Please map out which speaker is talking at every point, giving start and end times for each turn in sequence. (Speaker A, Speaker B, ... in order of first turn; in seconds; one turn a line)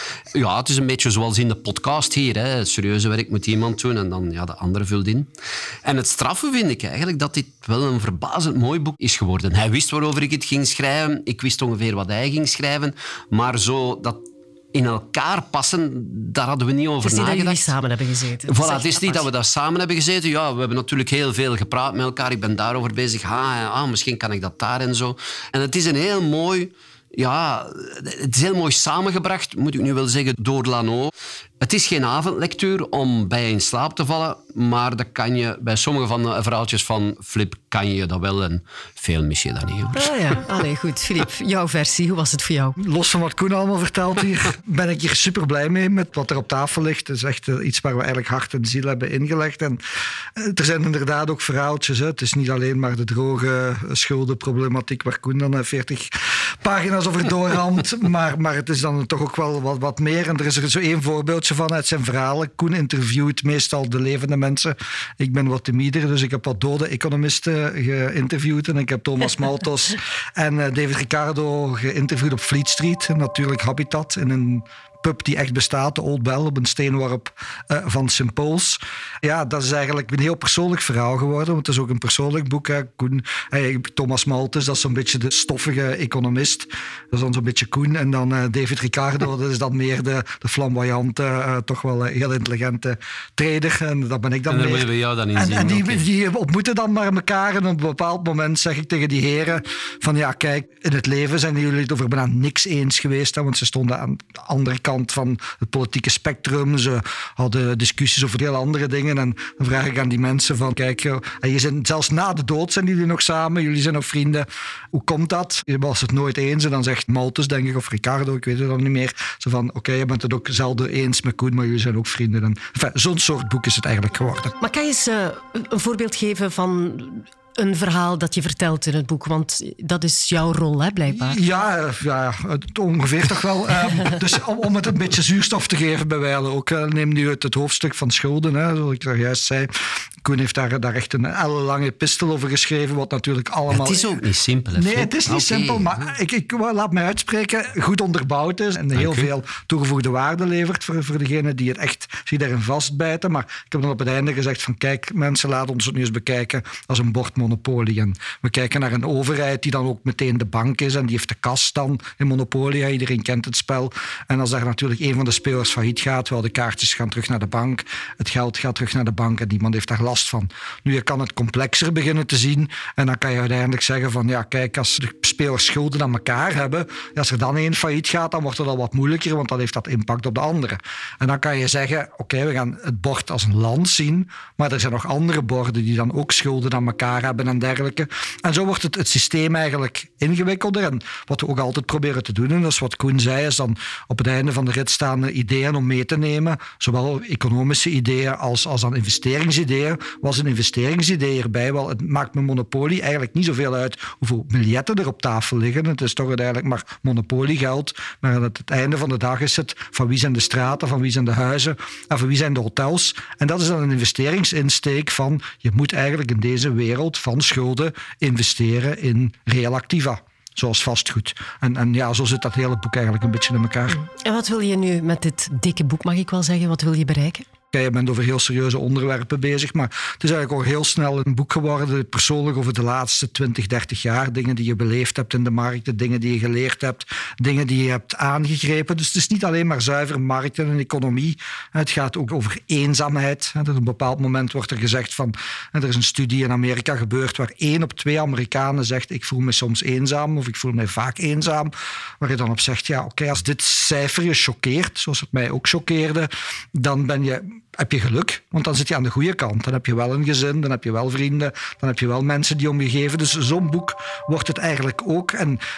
Speaker A: 0.3-5.3
Speaker A: 5.8-14.2
Speaker A: 14.7-17.7
Speaker B: 17.0-19.2
Speaker A: 18.5-40.1
Speaker B: 39.9-42.8
Speaker C: 42.8-49.8
Speaker C: 50.4-124.5
Speaker A: 94.5-96.0
Speaker B: 124.6-131.4
Speaker C: 131.1-139.7
Speaker C: 140.2-144.2
Speaker A: 143.7-146.0
Speaker C: 144.7-224.0
Speaker A: 148.9-149.3
Speaker B: 223.9-227.4
Speaker C: 227.7-265.6